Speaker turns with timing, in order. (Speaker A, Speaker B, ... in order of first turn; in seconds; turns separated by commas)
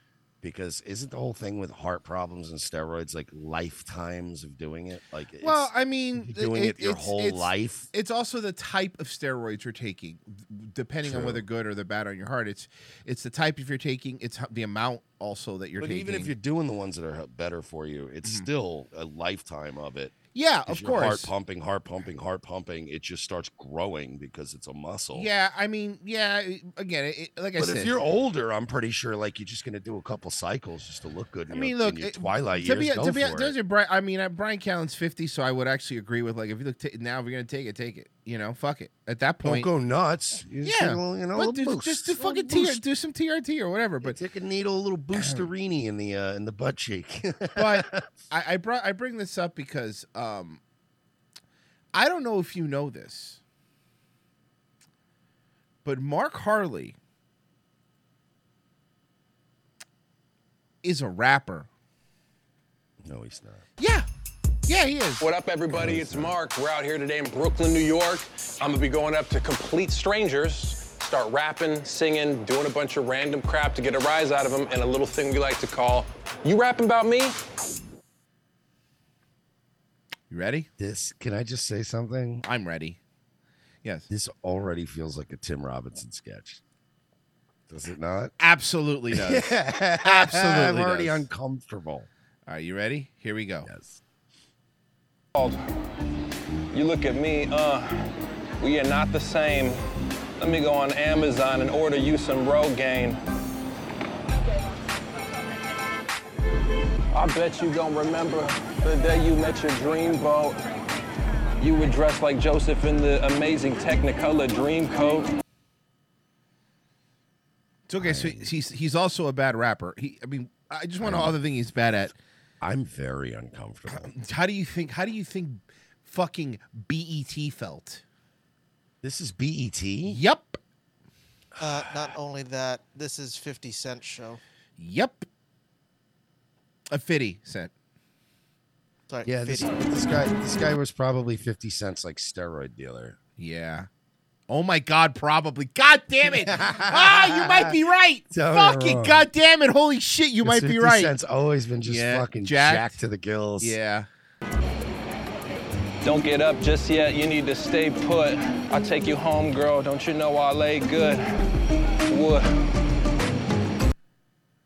Speaker A: 0.4-7.9, Speaker B: 5.4-16.3, Speaker A: 11.0-11.4, Speaker A: 15.8-20.2, Speaker B: 20.4-21.3, Speaker A: 20.7-25.3, Speaker B: 25.1-28.0, Speaker A: 27.6-33.5, Speaker B: 31.5-39.7, Speaker A: 39.4-42.8, Speaker B: 40.6-44.2, Speaker A: 44.0-48.0, Speaker B: 45.1-45.5, Speaker B: 47.6-50.6, Speaker B: 51.9-53.4, Speaker B: 55.9-57.0, Speaker B: 60.8-61.7, Speaker A: 63.0-63.6, Speaker B: 63.8-64.1, Speaker B: 64.7-65.2, Speaker C: 65.2-77.4, Speaker A: 65.7-66.4, Speaker B: 80.3-80.7, Speaker A: 80.8-82.4, Speaker B: 82.5-83.0, Speaker A: 84.1-86.6, Speaker A: 87.7-88.3, Speaker B: 88.4-91.2, Speaker A: 89.1-92.1, Speaker B: 92.5-93.7, Speaker A: 93.6-94.0, Speaker C: 96.7-98.1, Speaker C: 98.6-99.8, Speaker C: 100.4-103.2, Speaker C: 107.1-110.6, Speaker C: 111.6-115.3, Speaker B: 117.9-122.1, Speaker A: 118.0-118.5, Speaker A: 121.0-121.3, Speaker A: 122.6-124.1, Speaker B: 123.9-128.0, Speaker A: 129.0-130.2, Speaker B: 130.1-130.6, Speaker D: 131.6-134.4, Speaker B: 134.8-135.3, Speaker B: 136.9-137.7, Speaker D: 139.1-139.8, Speaker A: 139.2-143.2, Speaker B: 143.4-143.9, Speaker B: 144.5-151.1, Speaker A: 146.2-147.8, Speaker A: 148.3-149.3, Speaker A: 150.4-153.8, Speaker B: 151.8-153.0, Speaker B: 153.6-154.1, Speaker C: 156.0-161.2, Speaker C: 162.1-162.5